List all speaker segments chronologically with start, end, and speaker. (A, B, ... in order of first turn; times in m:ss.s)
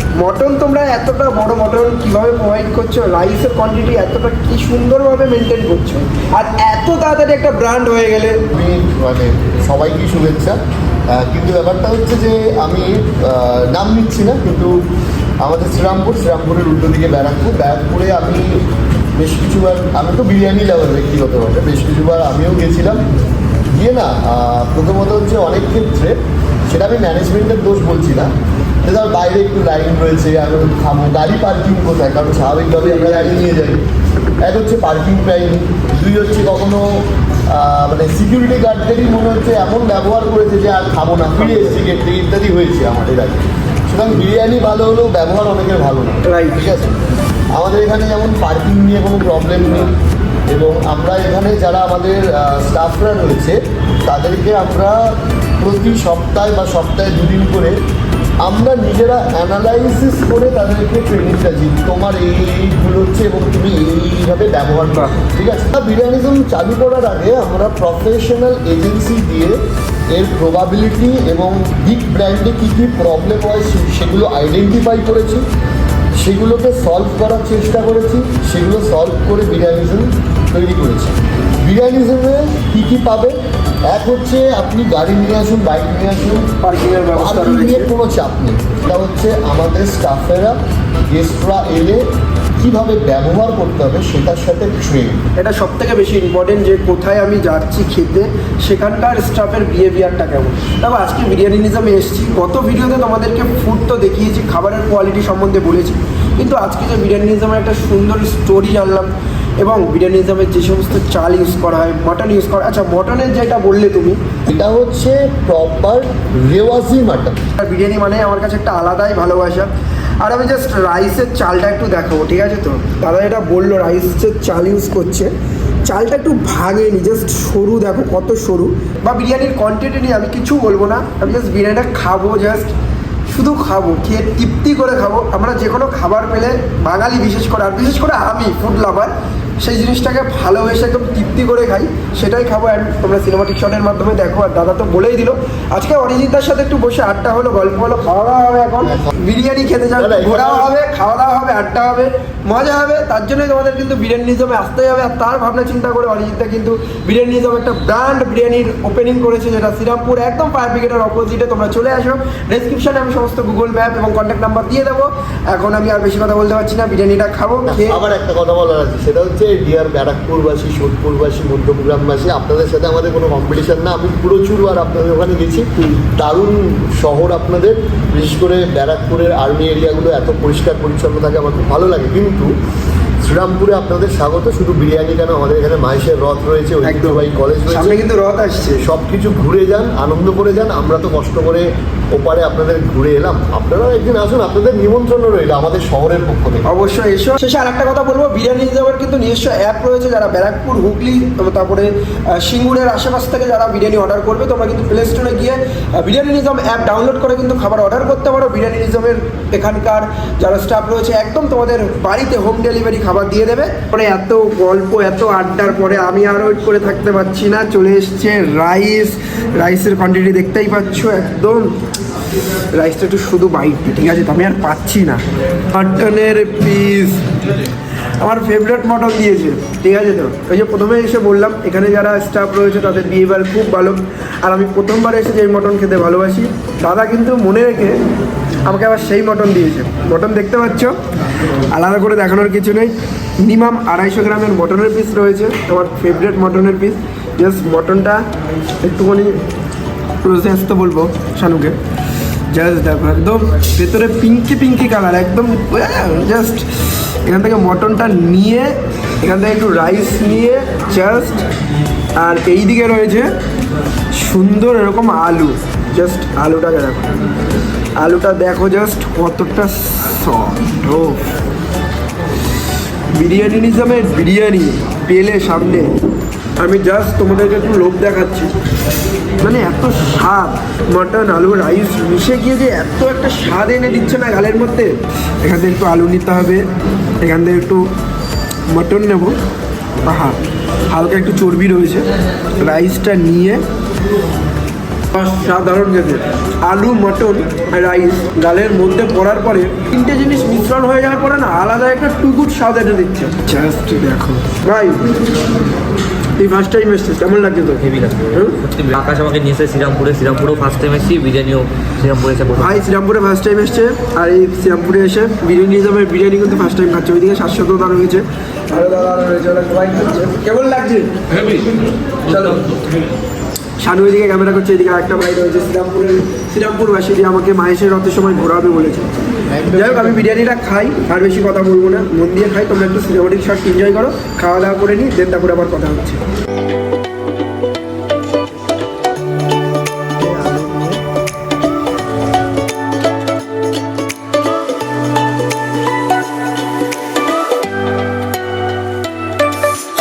0:00.2-0:08.4 A
0:08.5-0:14.8 B
0:15.4-0:18.6 B
0:19.2-0:23.0 B
0:23.7-0:26.2 B
0:26.7-0:28.3 B
0:28.8-0:33.8 B
0:34.4-0:47.0 B
0:46.2-0:46.7 A
0:47.6-0:49.9 B
0:50.5-0:57.8 B
0:58.4-1:09.6 B
1:10.1-1:15.4 B
1:16.2-1:23.4 B
1:23.9-1:26.5 B
1:26.6-1:27.9 A
1:27.2-1:30.6 B
1:31.1-1:32.0 B
1:32.6-1:35.2 B
1:35.4-1:54.2 A
1:54.5-1:57.4 B
1:57.6-2:05.3 A
2:05.9-2:12.7 A
2:13.3-2:48.0 A
2:28.8-2:29.1 B
2:30.0-2:30.7 B
2:47.7-3:02.5 B
2:55.8-2:56.0 A
3:03.2-3:08.0 B
3:06.8-3:08.8 A
3:08.8-3:16.7 B
3:16.7-3:41.8 A
3:42.7-3:47.3 A
3:48.2-3:58.0 A
3:58.6-4:01.0 A
4:01.7-4:08.2 A
4:08.8-4:09.4 A
4:10.2-4:11.8 A
4:12.5-4:16.7 A
4:17.2-4:21.4 A
4:22.2-4:23.3 A
4:24.1-4:27.1 A
4:28.0-4:31.4 A
4:33.1-4:36.0 A
4:36.6-4:38.5 A
4:39.4-4:46.7 A
4:47.2-4:47.9 A
4:48.7-4:49.4 A
4:50.0-4:50.4 A
4:50.9-4:53.6 A
4:55.1-5:05.1 A
5:06.4-5:08.6 A
5:07.8-5:12.8 C
5:12.6-5:21.7 A
5:22.2-5:22.7 A
5:23.8-5:29.2 A
5:29.5-5:30.2 B
5:29.7-5:36.2 A
5:40.2-5:41.0 A